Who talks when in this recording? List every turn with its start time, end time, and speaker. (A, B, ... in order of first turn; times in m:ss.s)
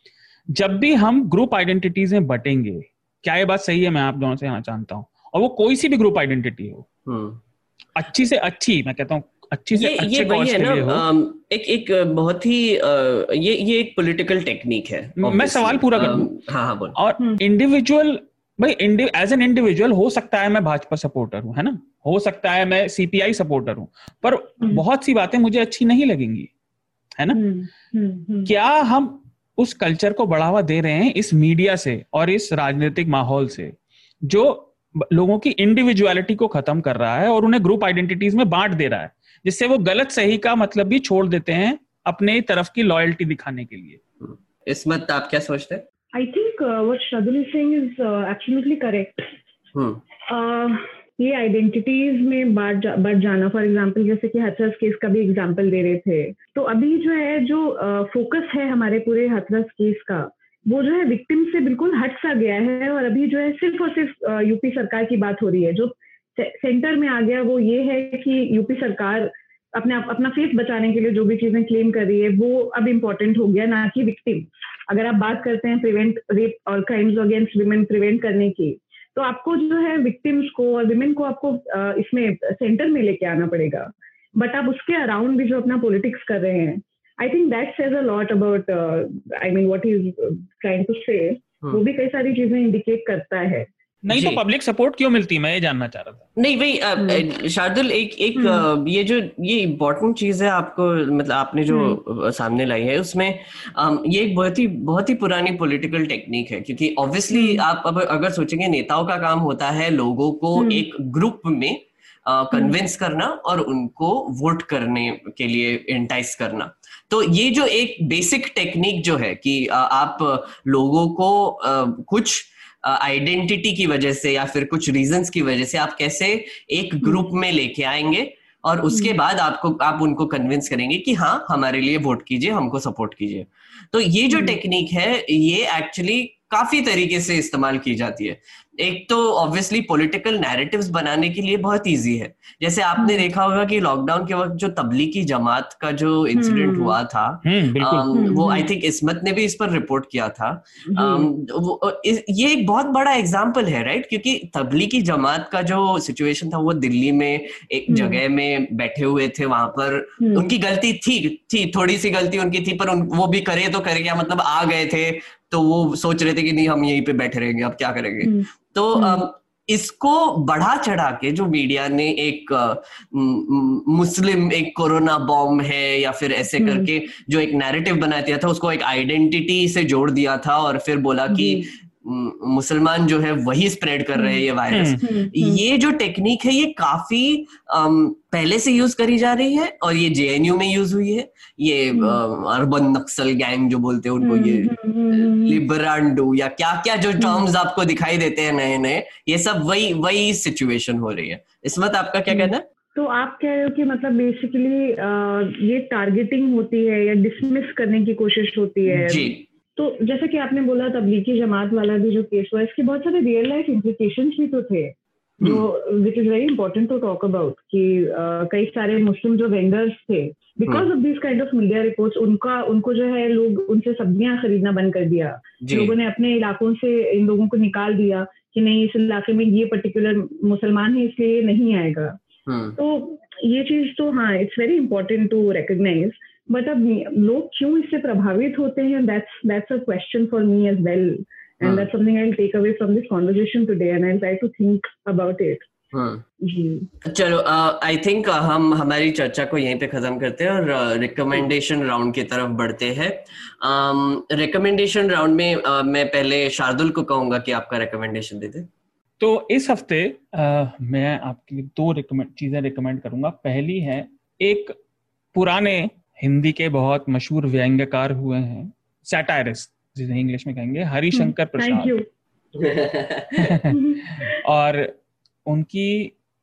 0:00.5-0:06.9 A
0:07.1-0:07.4 B
0:08.0-0:11.0 A
0:09.7-0:17.0 B
0:15.2-0:16.3 A
0:17.0-0:26.5 A
0:27.3-0:28.5 C
0:28.5-0:33.7 A
0:34.2-0:44.0 A
0:44.2-0:45.8 B
0:46.1-0:49.3 C
0:49.7-0:50.0 B
0:50.3-1:33.7 C
1:34.0-1:36.3 A
1:34.1-1:34.4 B
1:36.4-3:22.6 B
1:37.0-1:37.2 C
1:38.4-1:38.7 C
1:41.7-1:42.0 C
1:47.3-1:47.6 C
1:50.6-1:50.8 C
2:08.9-2:09.2 C
2:14.3-2:14.6 C
2:23.0-2:23.3 C
2:26.4-2:27.0 C
2:27.4-2:28.1 A
2:28.1-2:28.7 C
2:30.9-2:31.3 C
2:37.9-2:38.2 C
2:40.2-2:40.5 C
2:48.2-2:49.2 C
2:56.6-2:56.9 C
3:01.3-3:01.7 C
3:04.2-3:04.5 C
3:04.7-3:05.0 A
3:05.0-3:05.6 C
3:11.9-3:12.2 C
3:14.2-3:15.6 C
3:17.2-3:17.5 C
3:22.3-3:52.2 C
3:28.9-3:29.4 B
3:45.6-3:45.9 B
3:52.5-3:52.8 B
3:52.8-4:05.7 C
4:01.6-4:01.9 B
4:05.9-4:06.2 B
4:06.4-4:06.9 C
4:07.0-4:18.7 B
4:19.2-4:24.7 A
4:25.3-4:31.9 A
4:31.1-4:32.0 C
4:32.6-4:33.6 B
4:33.4-4:34.9 A
4:33.7-4:34.2 C
4:35.5-4:36.1 A